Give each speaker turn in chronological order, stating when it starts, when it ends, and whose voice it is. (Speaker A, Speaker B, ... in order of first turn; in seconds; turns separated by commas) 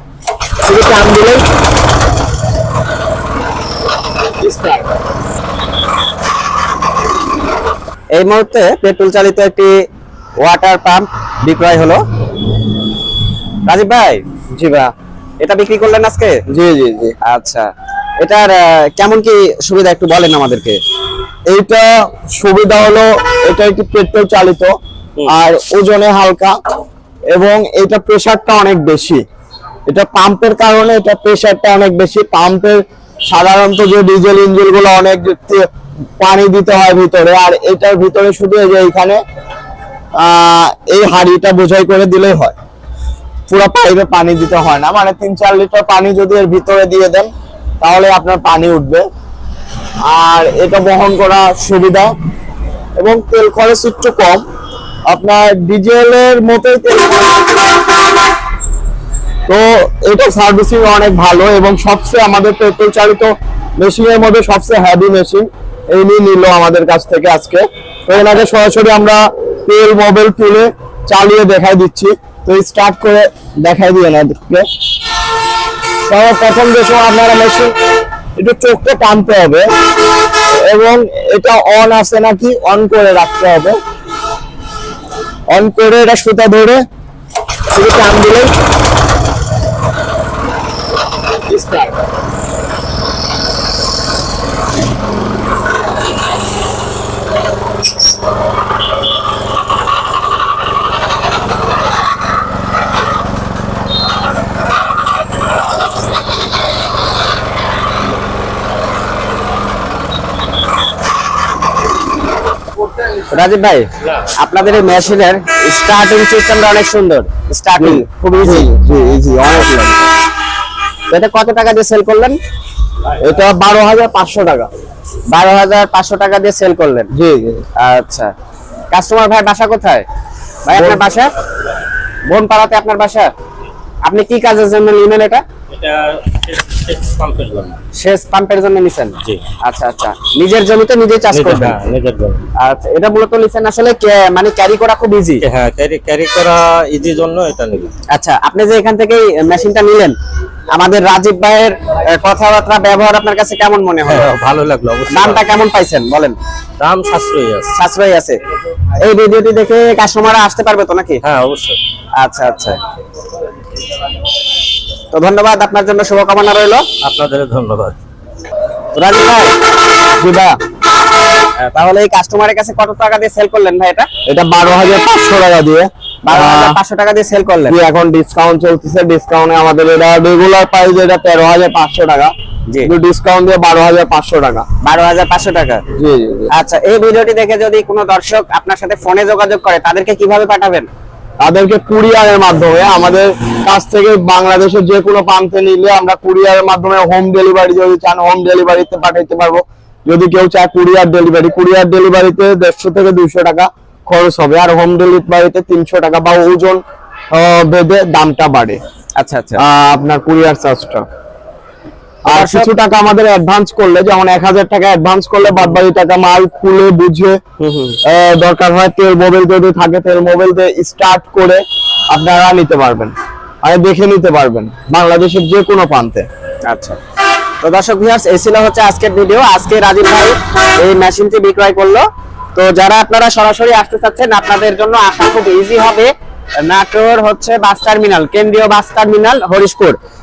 Speaker A: 0.7-1.4, Speaker A: 4.4-4.9, Speaker B: 8.2-9.7, Speaker B: 10.4-12.0, Speaker B: 13.7-14.2, Speaker A: 14.6-14.9, Speaker B: 15.4-16.4, Speaker A: 16.5-17.1, Speaker B: 17.2-20.8, Speaker A: 21.5-24.7, Speaker A: 25.3-26.6, Speaker A: 27.3-29.2, Speaker A: 29.9-35.7, Speaker A: 36.2-39.2, Speaker A: 40.2-42.5, Speaker A: 43.5-47.3, Speaker A: 47.8-49.0, Speaker A: 50.1-52.1, Speaker A: 53.0-54.4, Speaker A: 55.1-57.5, Speaker A: 59.5-74.7, Speaker A: 76.1-77.7, Speaker A: 78.4-79.7, Speaker A: 80.7-83.8, Speaker A: 85.5-86.8, Speaker A: 87.7-88.5, Speaker A: 91.5-92.0, Speaker B: 113.0-119.9, Speaker A: 117.8-120.0, Speaker B: 121.1-122.4, Speaker A: 123.2-124.7, Speaker B: 125.3-127.1, Speaker A: 127.1-127.6, Speaker B: 127.8-128.3, Speaker B: 128.9-130.1, Speaker B: 130.7-131.3, Speaker A: 130.7-131.0, Speaker B: 132.3-133.3, Speaker B: 134.1-135.4, Speaker C: 135.7-137.8, Speaker B: 138.0-141.8, Speaker C: 141.3-142.4, Speaker B: 142.6-145.4, Speaker C: 145.4-147.9, Speaker B: 148.1-150.2, Speaker B: 150.8-154.3, Speaker C: 154.1-155.5, Speaker B: 155.1-156.4, Speaker C: 156.8-157.8, Speaker B: 157.8-158.4, Speaker B: 159.0-161.2, Speaker C: 161.2-161.8, Speaker B: 162.2-162.8, Speaker B: 165.1-166.9, Speaker C: 167.0-168.0, Speaker B: 169.0-169.5, Speaker A: 170.2-170.6, Speaker B: 171.6-174.1, Speaker A: 174.3-176.8, Speaker B: 176.3-177.8, Speaker A: 177.7-182.3, Speaker A: 182.8-184.7, Speaker B: 184.8-185.8, Speaker A: 185.9-186.5, Speaker B: 186.5-190.9, Speaker A: 191.4-206.8, Speaker A: 207.3-208.8, Speaker B: 209.2-209.6, Speaker A: 209.6-211.0, Speaker A: 212.3-217.4, Speaker B: 212.3-212.7, Speaker B: 217.6-218.0, Speaker A: 218.1-226.3, Speaker B: 226.7-227.0, Speaker B: 227.6-232.1, Speaker B: 232.6-236.1, Speaker B: 236.7-240.0